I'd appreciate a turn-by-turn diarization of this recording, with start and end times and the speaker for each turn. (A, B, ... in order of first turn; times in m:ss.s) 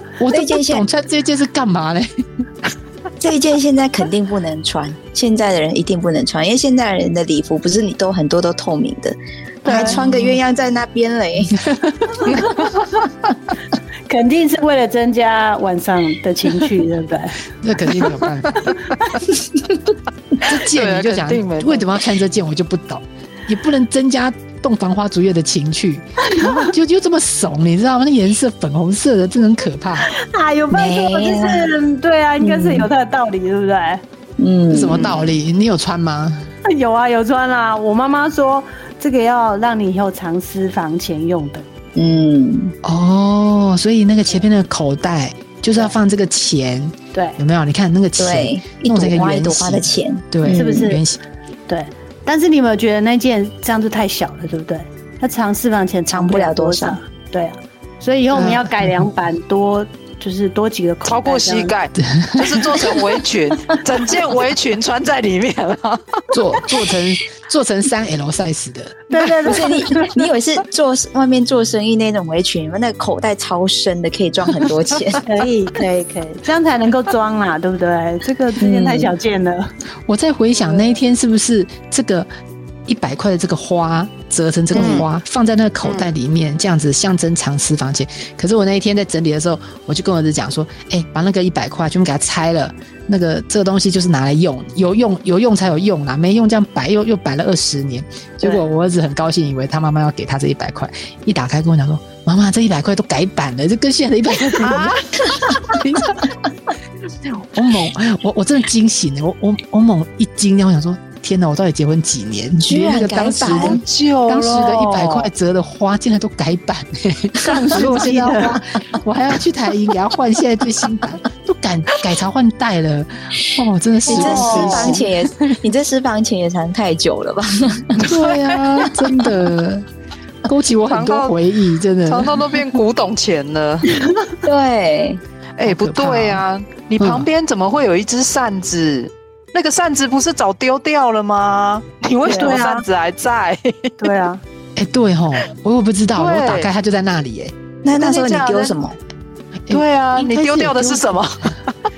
0:00.2-0:02.2 A
0:00.3-0:00.9 B
0:03.2-0:11.6 B
0:09.6-0:10.0 C
0:09.7-0:10.4 A
0:11.6-0:12.3 A
0:14.1-0:17.4 C
0:17.6-0:18.7 A
0:18.0-0:18.3 D
0:20.4-0:30.1 A
0:20.7-0:21.9 D
0:26.3-0:26.7 C
0:30.0-0:34.0 C
0:30.7-0:31.7 B
0:32.4-0:32.9 B
0:34.4-0:35.4 B
0:34.7-0:36.5 A
0:36.6-0:41.7 C
0:42.0-0:42.7 B
0:42.8-0:51.2 A
0:47.1-0:47.4 C
0:48.2-0:50.9 B
0:50.6-0:51.0 C
0:51.7-1:01.7 C
0:56.1-0:57.0 B
0:58.3-0:59.1 A
1:01.0-1:06.0 D
1:02.0-1:02.9 A
1:06.3-1:09.0 A
1:09.1-1:10.1 C
1:09.4-1:15.2 B
1:15.2-1:19.7 C
1:18.6-1:19.1 B
1:20.1-1:22.3 A
1:22.9-1:46.3 A
1:24.7-1:25.1 D
1:25.8-1:26.1 D
1:47.3-2:05.1 A
1:52.6-1:53.8 B
1:53.4-1:55.3 D
1:57.4-1:58.6 C
2:04.1-2:05.0 D
2:04.1-2:08.0 B
2:08.0-2:09.9 A
2:08.1-2:08.9 D
2:10.4-2:12.3 A
2:10.9-2:11.4 D
2:12.1-2:14.0 D
2:14.4-2:15.2 B
2:15.6-2:23.9 D
2:15.6-2:16.4 A
2:17.0-2:17.3 A
2:22.3-2:22.8 C
2:24.0-2:24.4 C
2:24.8-2:27.5 A
2:26.2-2:26.7 D
2:27.8-2:29.0 B
2:27.9-2:28.7 D
2:29.7-2:31.2 A
2:29.7-2:31.7 D